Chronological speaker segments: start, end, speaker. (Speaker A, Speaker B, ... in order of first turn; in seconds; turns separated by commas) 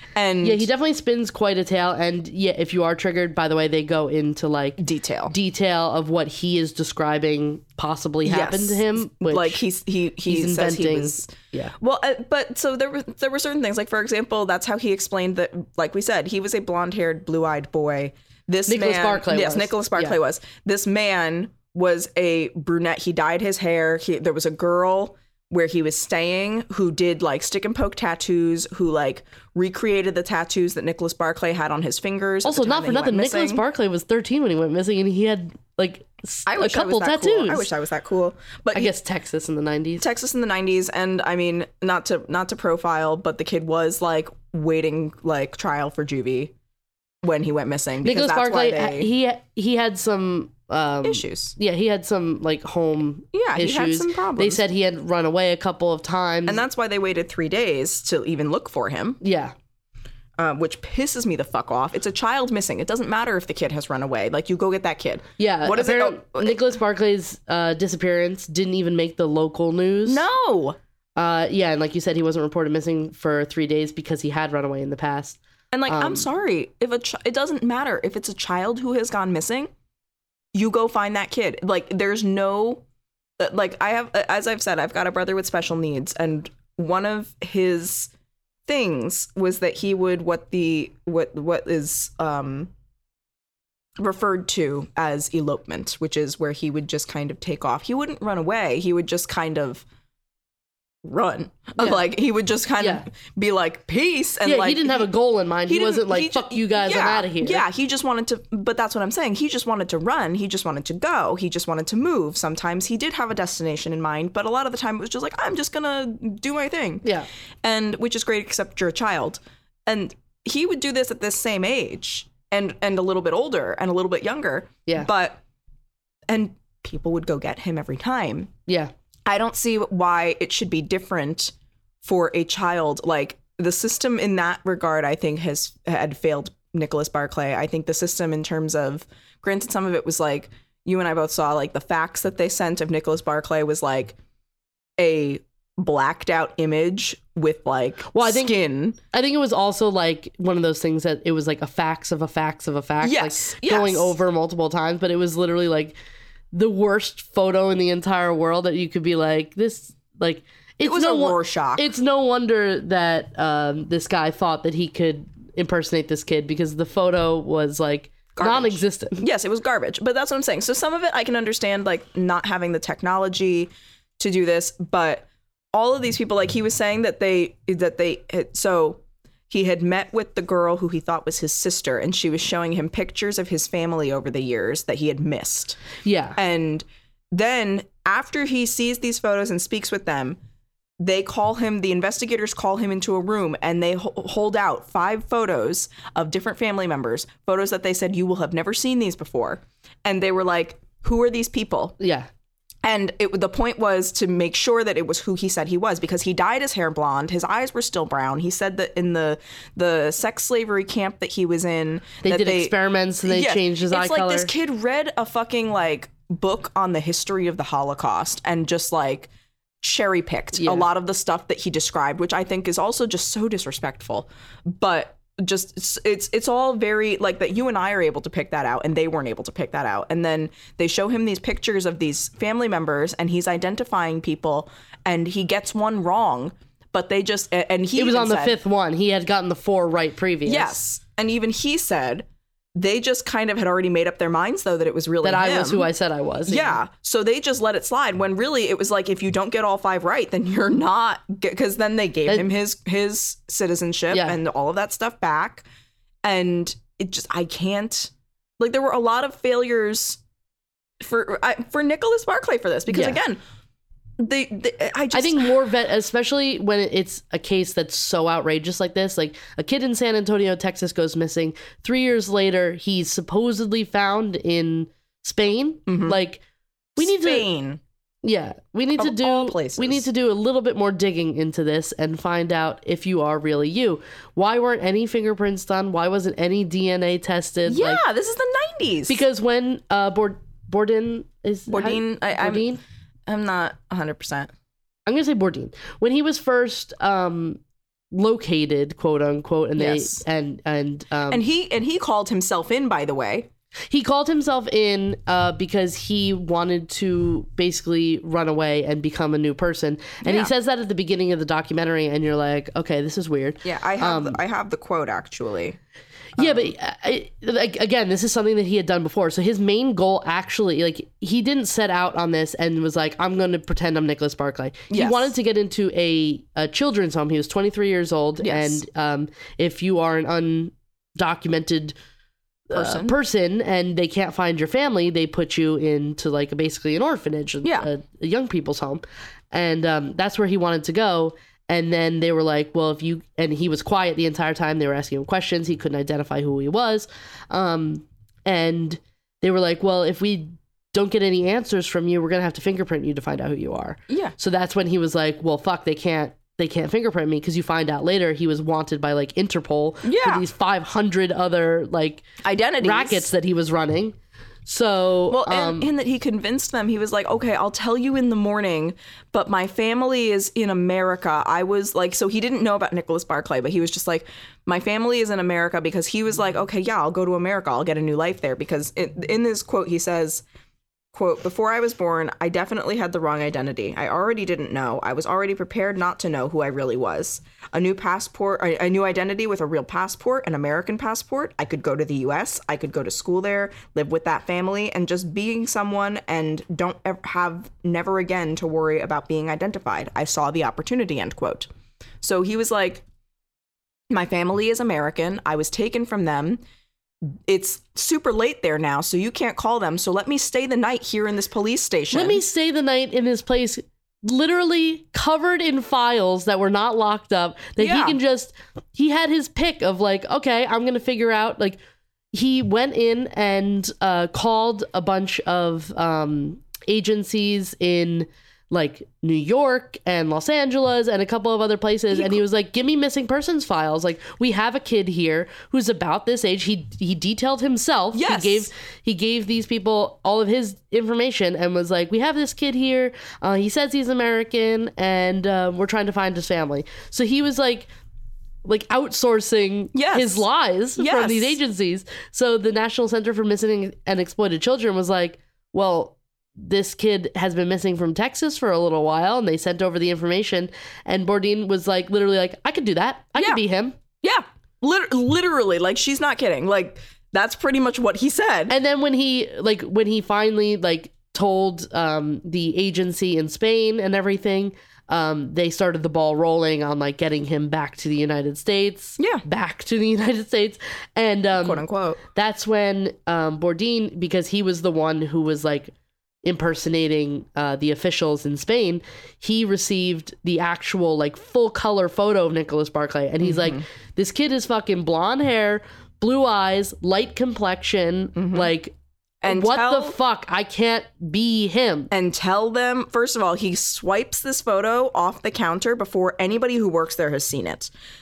Speaker A: 0.1-0.7, Speaker B: 0.4-9.6, Speaker A: 4.8-5.3, Speaker A: 8.2-33.6, Speaker B: 10.3-11.7, Speaker B: 18.7-20.2, Speaker B: 32.4-37.7, Speaker A: 36.5-38.9, Speaker B: 38.7-40.1, Speaker A: 40.0-46.5, Speaker A: 47.2-49.1, Speaker B: 48.0-56.6, Speaker A: 51.0-51.5, Speaker A: 53.3-54.6, Speaker A: 56.5-59.2, Speaker B: 59.2-59.5, Speaker A: 60.4-66.6, Speaker B: 65.4-70.2, Speaker A: 70.0-70.8, Speaker B: 71.2-76.3, Speaker A: 75.7-79.7, Speaker A: 80.5-82.8, Speaker A: 83.4-88.1, Speaker A: 88.7-92.7, Speaker A: 94.0-99.8, Speaker A: 101.0-105.1, Speaker B: 102.8-103.0, Speaker B: 104.4-107.6, Speaker A: 105.7-117.0, Speaker A: 117.6-125.4, Speaker A: 126.3-128.5, Speaker A: 129.3-144.2, Speaker A: 145.0-149.0, Speaker B: 148.1-148.5, Speaker B: 149.1-155.9, Speaker A: 153.0-154.1, Speaker B: 156.5-169.2, Speaker A: 160.8-161.9, Speaker A: 168.3-185.8, Speaker B: 186.0-186.4, Speaker A: 186.3-190.4, Speaker A: 191.0-201.9, Speaker B: 202.0-202.3, Speaker A: 202.8-212.7, Speaker B: 212.2-214.5, Speaker A: 213.2-219.3, Speaker A: 219.8-238.6, Speaker B: 220.6-220.8, Speaker B: 237.9-240.8, Speaker A: 240.4-245.9, Speaker B: 245.2-246.8, Speaker A: 246.5-255.6, Speaker B: 254.1-254.4, Speaker A: 256.2-260.2, Speaker A: 261.0-263.4, Speaker B: 262.9-263.2, Speaker A: 264.2-265.5, Speaker B: 265.1-276.4, Speaker A: 275.9-276.2, Speaker A: 276.9-277.8, Speaker B: 277.0-277.5, Speaker B: 278.2-288.0, Speaker A: 279.0-280.1, Speaker A: 287.7-289.2, Speaker B: 289.1-292.8, Speaker A: 291.7-292.7, Speaker A: 293.3-294.5, Speaker B: 295.1-297.6, Speaker B: 298.1-301.4, Speaker A: 299.8-300.2, Speaker A: 301.3-303.5, Speaker B: 303.9-314.4, Speaker A: 310.2-310.5, Speaker A: 313.6-315.8, Speaker A: 316.4-316.7, Speaker B: 316.4-331.9, Speaker A: 324.9-325.3, Speaker A: 328.4-328.8, Speaker B: 332.7-362.2, Speaker A: 332.7-333.1, Speaker A: 354.1-354.3, Speaker A: 360.0-360.4, Speaker A: 362.4-363.3, Speaker B: 362.8-365.9, Speaker A: 365.3-380.4, Speaker A: 381.1-401.7, Speaker A: 402.2-403.0, Speaker A: 404.1-406.6, Speaker A: 407.3-412.4, Speaker B: 412.1-421.8, Speaker A: 417.8-418.2, Speaker B: 422.3-447.9, Speaker A: 432.1-432.4, Speaker A: 438.1-438.7, Speaker B: 448.6-463.9, Speaker A: 449.9-450.4, Speaker A: 451.0-451.6, Speaker A: 463.4-463.6, Speaker A: 464.2-468.7, Speaker B: 468.7-485.9, Speaker A: 481.5-482.2, Speaker B: 486.4-498.9, Speaker A: 493.4-493.8, Speaker A: 498.4-498.7, Speaker A: 499.4-500.2, Speaker B: 499.4-502.1, Speaker A: 502.1-507.9